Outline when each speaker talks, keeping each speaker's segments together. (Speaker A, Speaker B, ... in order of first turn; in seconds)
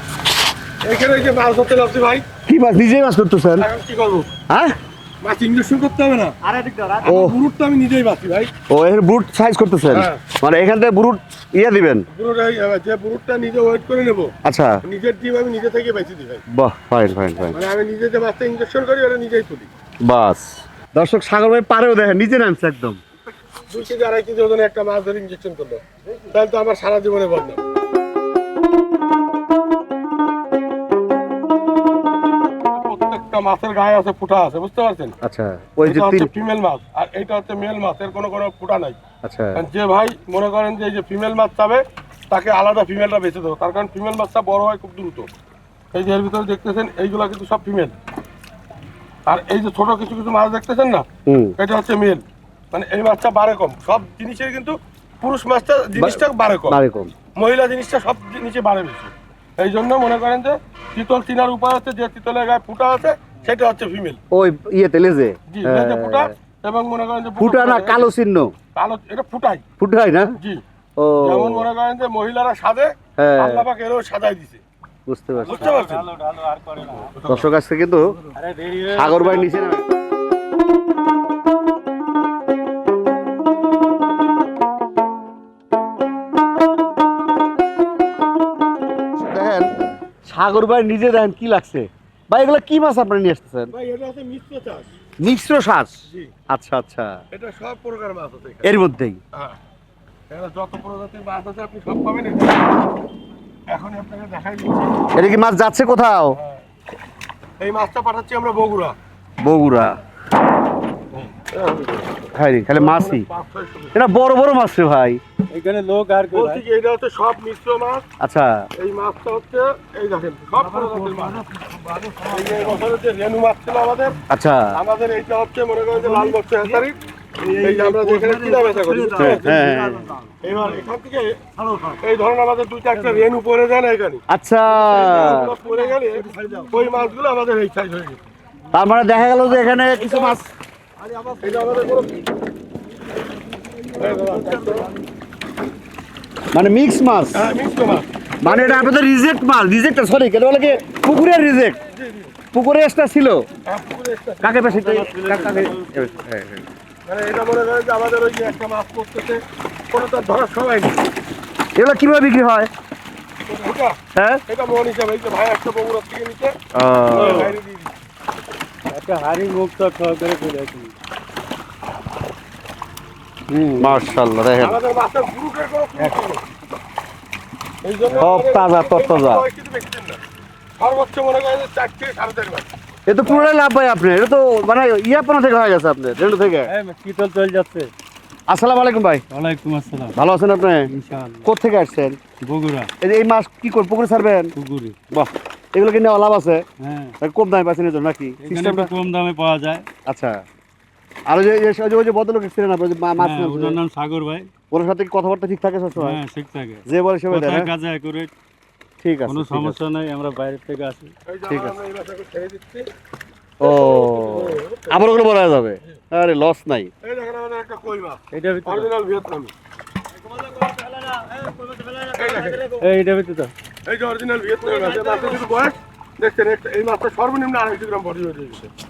Speaker A: 0.8-2.2, 3.6-4.3, 5.2-6.3, 7.0-8.5, 9.8-10.2, 12.1-16.4, 17.5-19.7, 23.6-27.7, 32.7-35.1, 35.8-39.0, 39.5-45.3, 45.9-47.9, 49.3-51.0, 51.6-56.8, 57.4-64.2, 65.5-68.1, 68.8-69.6, 71.2-74.6, 75.5-76.1, 77.1-77.5, 93.7-94.9, 97.3-98.7, 100.3-102.8, 103.7-105.0, 106.3-106.6, 107.6-109.0, 111.1-114.0, 116.3-118.0, 118.8-121.4, 122.2-124.2, 124.7-127.0, 127.6-129.5, 130.4-131.4, 132.0-134.2, 134.7-138.2, 140.0-140.3, 141.4-142.2, 143.9-144.9, 147.3-148.8, 151.9-152.3, 153.7-154.7, 157.1-161.0, 163.5-164.0, 164.5-166.5, 167.1-167.9, 174.6-176.4, 177.8-180.2, 180.8-182.7, 211.2-212.9, 213.6-215.0, 217.0-219.5, 222.1-222.7, 223.8-228.7
Speaker B: 2.5-3.7, 4.5-4.8, 6.4-7.4, 8.7-12.1, 14.4-14.8, 16.5-17.6, 20.0-23.0, 35.2-36.3, 39.2-39.6, 51.2-51.5, 56.0-57.1, 64.3-66.3, 67.4-68.5, 69.8-70.3, 71.0-71.7, 73.2-73.7, 75.1-75.7, 77.3-78.1, 78.9-79.8, 89.2-89.7, 90.2-93.7, 95.2-97.2, 98.6-99.2, 105.1-106.4, 109.4-110.0, 112.3-113.3, 113.9-115.2, 118.2-118.7, 124.3-124.8, 127.5-130.2, 134.3-135.6, 138.7-140.5, 146.5-147.5, 148.4-151.8, 152.5-153.5, 154.4-156.7, 161.8-162.7, 164.2-164.4, 166.7-167.5, 173.5-174.8, 178.2-179.5, 183.1-186.7, 188.5-189.2, 190.1-190.9, 191.4-192.2, 193.0-194.5, 195.1-196.6, 197.2-198.9, 200.1-200.4, 201.3-203.8, 204.7-206.2, 206.9-207.7, 209.0-209.8, 211.5-211.8, 213.6-216.9, 220.7-221.2, 221.7-222.6
Speaker C: 75.5-77.1, 78.3-79.5, 115.5-116.6, 120.8-122.2, 128.0-130.3, 136.3-136.6, 154.7-156.1, 168.9-170.9, 186.7-187.9, 189.3-190.2, 190.9-191.5, 192.4-192.9, 194.6-195.0, 196.8-197.1, 198.4-199.9, 203.2-204.5, 206.0-208.3, 209.3-211.1, 218.3-218.9, 221.2-221.7, 222.8-223.5